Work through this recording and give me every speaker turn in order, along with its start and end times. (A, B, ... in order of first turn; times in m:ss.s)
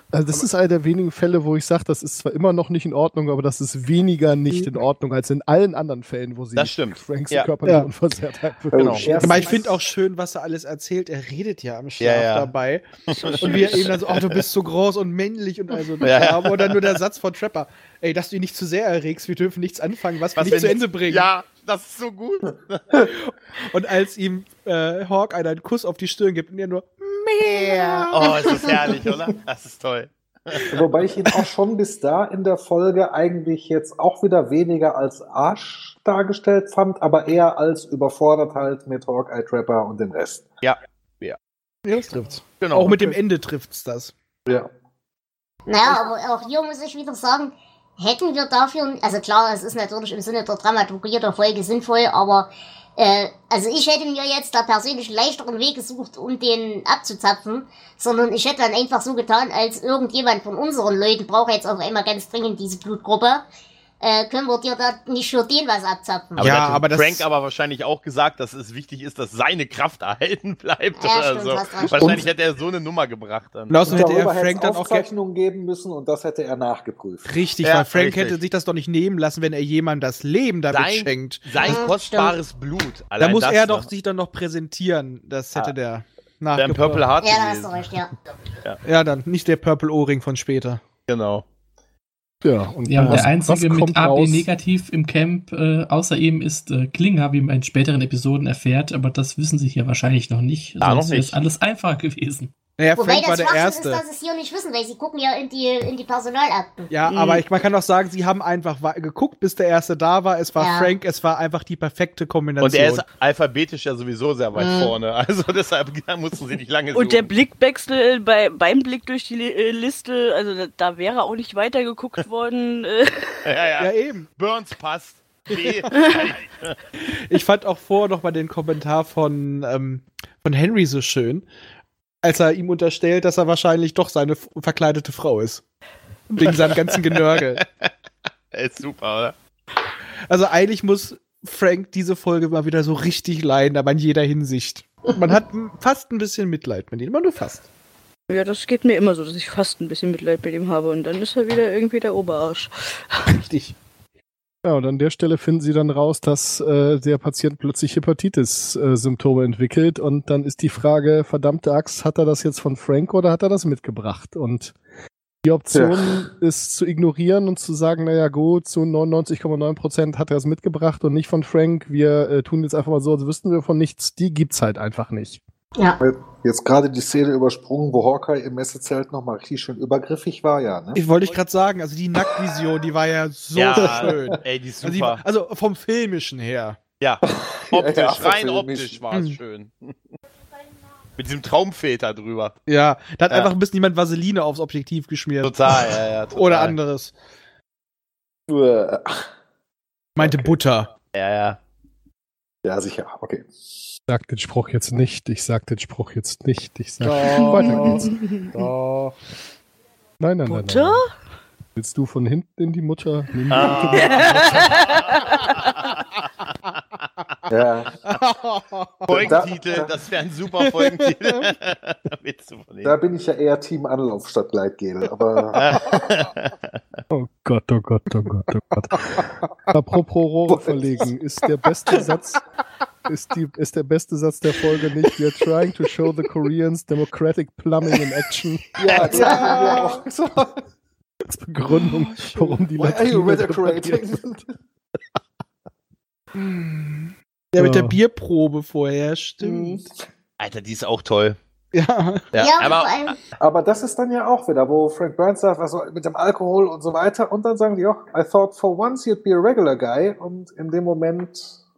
0:00.1-0:09.5 A
0:06.6-0:07.5 B
0:08.7-0:09.8 C
0:08.7-0:09.1 B
0:09.1-0:21.3 D
0:12.0-0:12.5 B
0:13.1-0:14.4 B
0:16.0-0:17.0 B
0:20.4-0:22.8 B
0:23.2-0:28.4 D
0:28.1-0:30.8 B
0:28.3-0:28.7 E
0:30.7-0:40.4 C
0:40.6-0:41.4 B
0:41.8-0:44.1 D
0:42.6-0:43.1 B
0:45.7-1:03.4 E
1:04.0-1:06.6 E
1:06.4-1:07.2 D
1:06.4-1:14.0 B
1:11.0-1:12.2 E
1:13.7-1:15.0 D
1:13.9-1:17.3 C
1:17.2-1:21.8 D
1:17.6-1:18.4 B
1:20.7-1:23.9 B
1:21.6-1:22.3 E
1:23.2-1:27.1 D
1:26.6-1:27.8 B
1:27.2-1:28.1 E
1:28.8-1:30.8 D
1:31.1-1:31.4 B
1:32.4-1:34.4 A
1:32.9-1:42.5 F
1:40.8-1:41.3 B
1:42.8-1:44.0 D
1:43.0-1:46.9 E
1:46.9-1:53.0 D
1:47.1-1:47.4 G
1:50.6-1:50.9 E
1:52.6-1:57.3 B
1:54.6-1:54.9 E
1:56.9-2:03.4 G
2:03.4-2:06.8 B
2:03.8-2:04.3 D
2:05.9-2:06.2 G
2:07.1-2:11.5 D
2:12.2-2:15.6 D
2:16.3-2:17.6 D
2:16.4-2:17.9 B
2:18.5-2:19.3 B
2:20.3-2:27.7 D
2:28.3-2:33.3 G
2:33.3-2:33.8 D
2:34.6-2:44.7 A
2:45.4-2:55.4 A
2:45.7-2:46.2 C
2:56.0-3:01.0 C
3:00.9-3:06.8 D
3:03.5-3:05.2 B
3:03.7-3:04.4 C
3:07.0-3:09.9 B
3:07.2-3:09.0 C
3:09.1-3:09.4 D
3:11.2-3:12.5 B
3:12.7-3:17.1 D
3:15.4-3:16.8 B
3:18.5-3:19.2 C
3:20.2-3:20.9 D
3:20.2-3:20.5 C
3:21.1-3:21.6 B
3:22.6-3:23.5 C
3:24.1-3:28.1 A
3:27.0-3:29.1 D
3:27.3-3:28.5 G
3:28.5-3:29.1 C
3:30.2-3:31.0 A
3:30.4-3:31.1 G
3:31.8-3:34.9 A
3:33.5-3:35.9 B
3:33.9-3:35.7 G
3:37.5-3:38.0 C
3:38.1-3:39.5 D
3:39.1-3:43.0 B
3:39.1-3:40.0 C
3:40.6-3:41.5 D
3:42.8-3:46.2 C
3:45.5-3:46.8 B
3:47.1-3:52.4 A
3:50.5-3:51.0 C
3:53.1-3:58.8 A
3:58.8-4:00.6 C
3:58.9-4:00.0 D
3:59.2-3:59.8 E
4:01.2-4:04.2 A
4:01.7-4:02.6 D
4:02.8-4:04.4 C
4:06.3-4:09.8 D
4:07.6-4:08.0 A
4:09.4-4:09.8 C
4:10.4-4:11.4 B
4:11.7-4:12.3 D
4:12.3-4:13.1 B
4:12.4-4:13.2 E
4:13.4-4:21.5 C